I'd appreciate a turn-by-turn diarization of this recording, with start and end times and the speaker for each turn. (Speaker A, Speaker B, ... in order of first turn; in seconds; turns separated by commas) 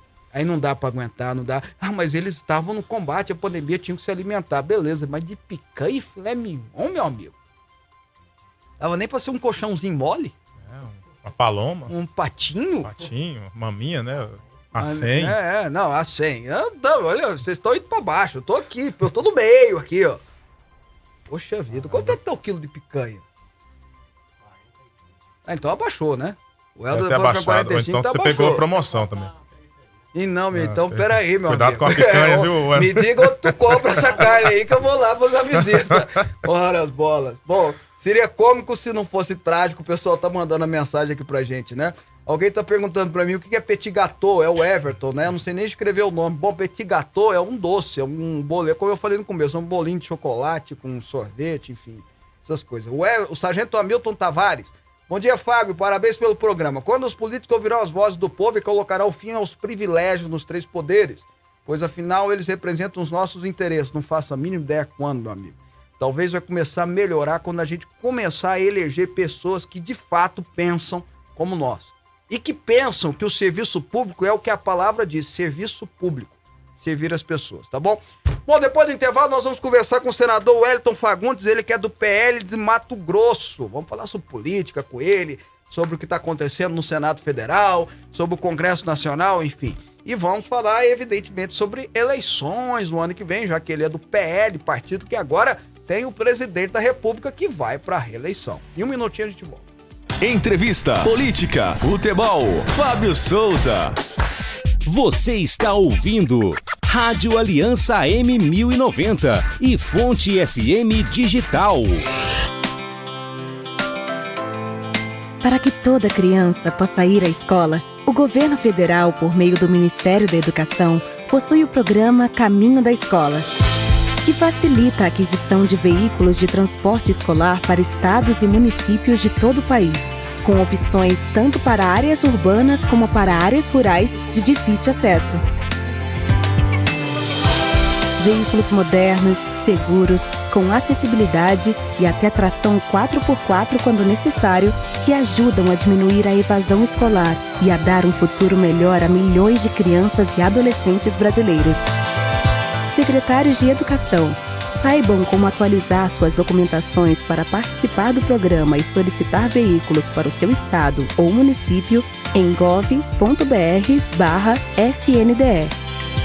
Speaker A: 0.3-7.3, Speaker A: 8.8-10.3, Speaker B: 10.6-11.9, Speaker A: 11.9-13.0, Speaker B: 12.8-15.4, Speaker A: 14.8-20.2, Speaker A: 21.3-23.2, Speaker B: 21.9-22.2, Speaker A: 25.4-28.6, Speaker B: 26.9-29.3, Speaker A: 30.1-99.7, Speaker B: 30.5-34.1, Speaker B: 35.7-36.0, Speaker C: 100.2-104.0, Speaker D: 104.9-112.0, Speaker E: 115.4-123.5, Speaker E: 124.2-135.4, Speaker E: 138.2-151.9, Speaker E: 152.9-165.8